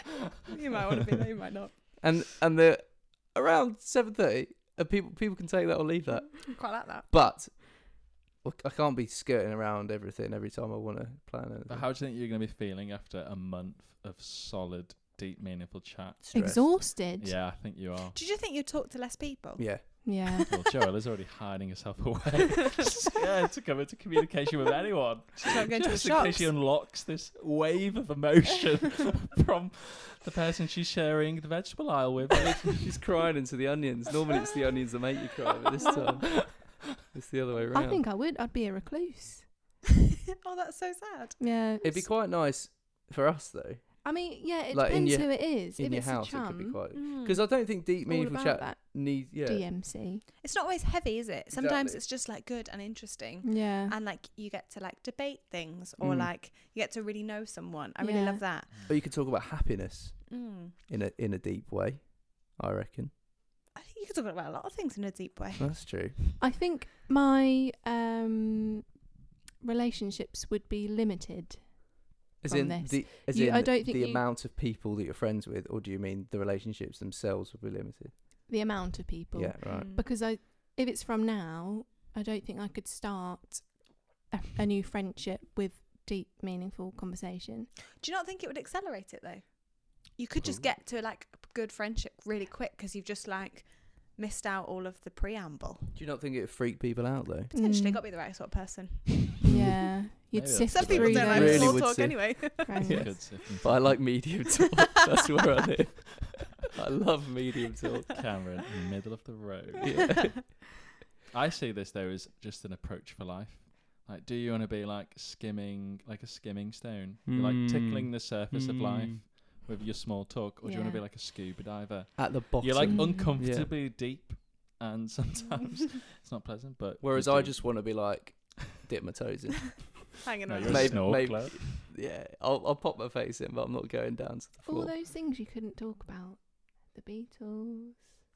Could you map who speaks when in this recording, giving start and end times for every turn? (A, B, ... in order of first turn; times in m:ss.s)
0:00.4-0:01.9 A
0:02.0-0:11.9 B
0:06.4-0:07.1 A
0:11.7-0:18.2 C
0:16.2-0:16.7 B
0:16.3-0:17.4 D
0:18.2-0:19.7 A
0:19.6-0:19.9 B
0:20.0-0:20.5 D
0:20.5-0:32.9 C
0:25.4-0:26.5 A
0:32.3-0:38.0 B
0:35.8-0:36.2 A
0:37.7-0:39.5 D
0:40.4-0:41.4 A
0:41.4-0:42.1 D
0:41.8-0:44.1 B
0:44.0-0:46.8 D
0:44.7-0:49.7 B
0:46.9-0:47.4 A
0:48.1-0:50.2 D
0:50.4-0:58.9 A
0:51.5-0:52.0 B
0:53.4-0:54.0 D
0:56.0-0:56.3 B
0:58.0-0:58.4 D
0:58.9-1:03.1 B
1:00.3-1:00.8 A
1:03.8-1:06.0 A
1:05.6-1:06.2 B
1:06.4-1:08.9 D
1:09.6-1:14.3 D
1:12.4-1:18.1 B
1:18.5-1:27.7 D
1:19.3-1:19.9 B
1:19.7-1:20.1 A
1:28.0-1:36.0 A
1:30.4-1:30.7 C
1:36.0-1:37.5 B
1:37.5-1:39.4 A
1:37.5-1:38.0 D
1:39.4-1:41.9 D
1:39.4-1:39.7 B
1:40.3-1:41.8 C
1:40.7-1:43.0 A
1:41.2-1:48.2 B
1:42.6-1:43.2 D
1:42.9-1:44.2 C
1:48.2-1:50.4 C
1:49.8-1:50.4 B
1:50.0-1:50.4 A
1:51.3-2:08.0 C
1:57.3-1:59.2 B
2:00.6-2:01.0 D
2:02.2-2:03.7 B
2:02.9-2:03.3 D
2:07.0-2:10.1 B
2:10.2-2:11.3 A
2:10.5-2:11.8 C
2:10.6-2:14.9 B
2:14.6-2:18.2 D